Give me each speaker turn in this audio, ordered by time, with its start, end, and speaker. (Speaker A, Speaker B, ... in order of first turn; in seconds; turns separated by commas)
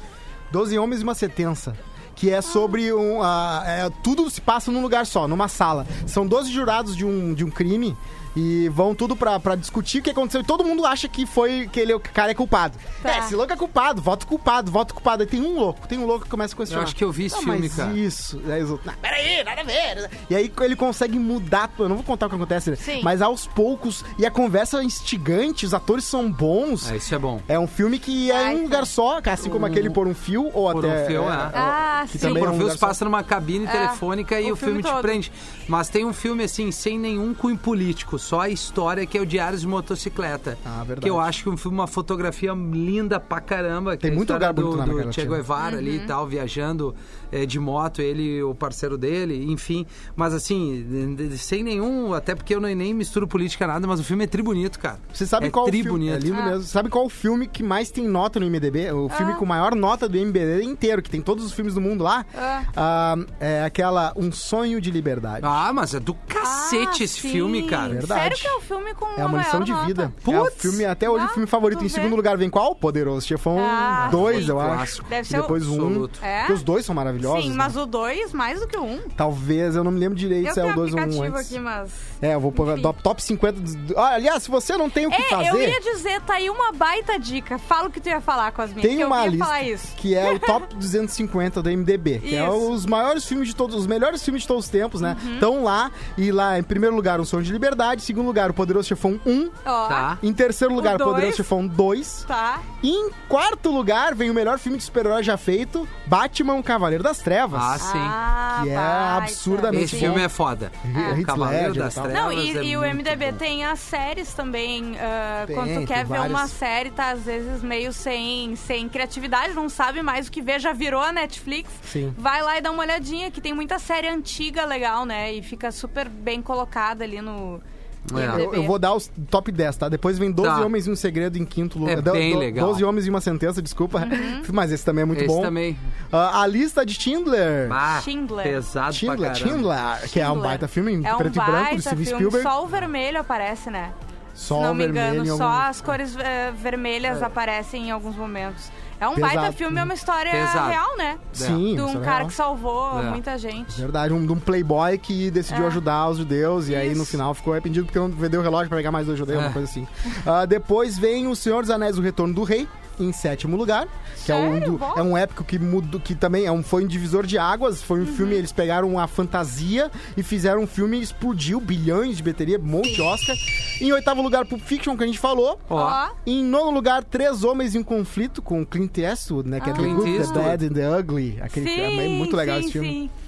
Speaker A: 0.5-26.9, Speaker B: 13.0-13.3, Speaker C: 16.7-18.0, Speaker B: 22.8-23.1, Speaker C: 26.8-27.4, Speaker A: 27.5-33.0, Speaker B: 28.3-28.9, Speaker C: 29.4-30.0, Speaker C: 30.7-31.6, Speaker B: 31.5-32.5, Speaker C: 32.2-56.3, Speaker B: 33.7-35.2, Speaker A: 40.6-41.3, Speaker A: 44.0-45.4, Speaker B: 45.6-46.1, Speaker A: 55.1-65.6, Speaker B: 56.3-56.6, Speaker B: 59.1-59.4, Speaker B: 62.4-62.7, Speaker C: 65.4-68.0, Speaker B: 66.4-70.2, Speaker A: 67.9-68.6, Speaker A: 69.2-77.8, Speaker C: 70.2-70.8, Speaker B: 71.1-72.2, Speaker B: 73.6-75.5, Speaker C: 74.0-76.2, Speaker B: 76.2-76.6, Speaker B: 77.2-79.1, Speaker A: 79.2-81.5, Speaker B: 80.4-82.9, Speaker A: 82.2-85.8, Speaker B: 85.1-90.6, Speaker A: 88.8-99.6, Speaker B: 92.2-92.7, Speaker B: 95.0-95.5, Speaker B: 99.7-100.2, Speaker C: 99.9-100.2, Speaker A: 100.2-102.3, Speaker B: 100.8-101.5, Speaker B: 102.3-102.7, Speaker A: 102.8-107.8, Speaker C: 107.5-108.2, Speaker B: 107.8-110.2, Speaker A: 108.5-110.3, Speaker C: 109.7-113.4, Speaker A: 110.8-112.2, Speaker B: 110.9-111.2, Speaker B: 112.1-127.6, Speaker A: 115.5-116.5, Speaker A: 121.8-122.2, Speaker C: 128.1-128.5, Speaker B: 128.1-128.8, Speaker A: 128.2-135.5, Speaker C: 130.4-130.7, Speaker C: 131.8-132.8, Speaker B: 134.0-134.5, Speaker C: 135.1-135.8, Speaker A: 136.1-137.8, Speaker C: 137.7-139.7, Speaker B: 137.9-138.6, Speaker A: 138.9-142.5, Speaker B: 140.1-143.9, Speaker A: 144.4-145.8, Speaker B: 144.5-153.8, Speaker A: 149.2-149.9, Speaker C: 150.3-150.8, Speaker A: 151.3-152.3, Speaker C: 151.3-151.7, Speaker C: 152.9-153.2, Speaker A: 153.7-183.0, Speaker B: 155.5-155.8, Speaker B: 156.7-157.2, Speaker C: 159.3-159.6, Speaker B: 164.2-165.1, Speaker B: 168.0-168.4, Speaker C: 175.7-176.0, Speaker B: 175.7-176.2, Speaker B: 179.6-180.5, Speaker C: 179.7-180.6, Speaker B: 181.5-183.1